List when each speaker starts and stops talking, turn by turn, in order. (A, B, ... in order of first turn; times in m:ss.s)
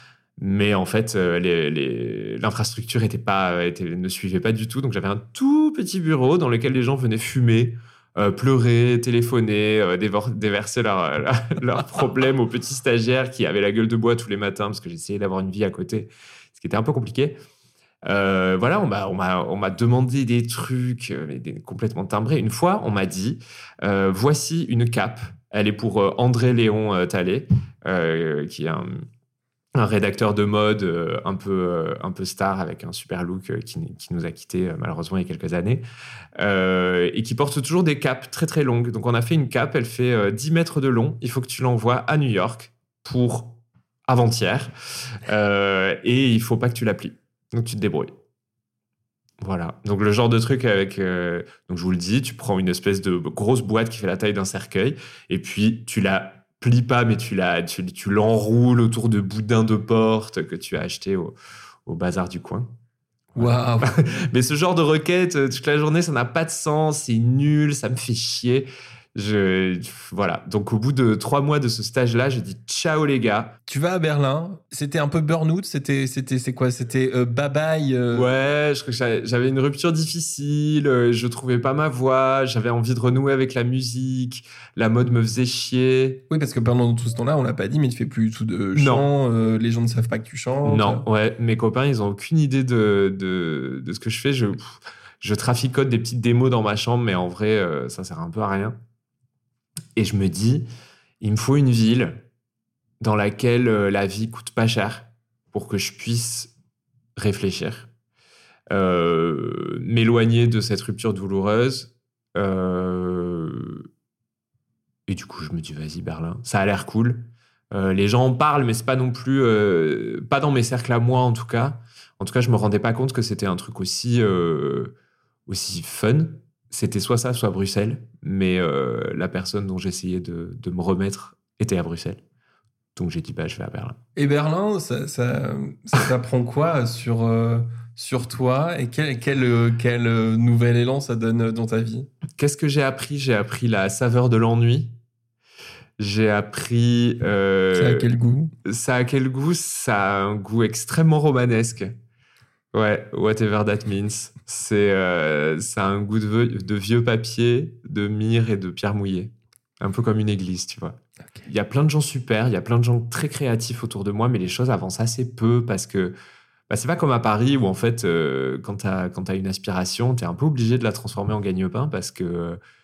0:00.4-0:17.4 A
0:18.1-0:29.0 A
0:29.8-0:35.8 A
0:36.4-0:48.2 A
0:49.4-1:01.4 A
1:01.9-1:02.7 A
1:03.4-1:03.9 B
1:03.4-1:13.6 A
1:13.7-1:18.3 B
1:18.1-1:26.2 A
1:26.3-1:31.0 B
1:28.8-1:29.1 A
1:30.6-1:38.8 A
1:40.0-1:40.7 A
1:41.2-1:42.2 A
1:43.0-1:46.5 A
1:47.2-1:47.9 A
1:48.7-1:53.9 A
1:55.1-2:04.9 A
2:05.5-2:12.2 A
2:13.0-2:14.0 A
2:14.2-2:22.1 B
2:22.4-2:25.0 A
2:26.0-2:28.1 A
2:27.8-2:28.5 B
2:28.6-2:32.0 A
2:32.7-2:46.2 A
2:46.7-2:52.6 A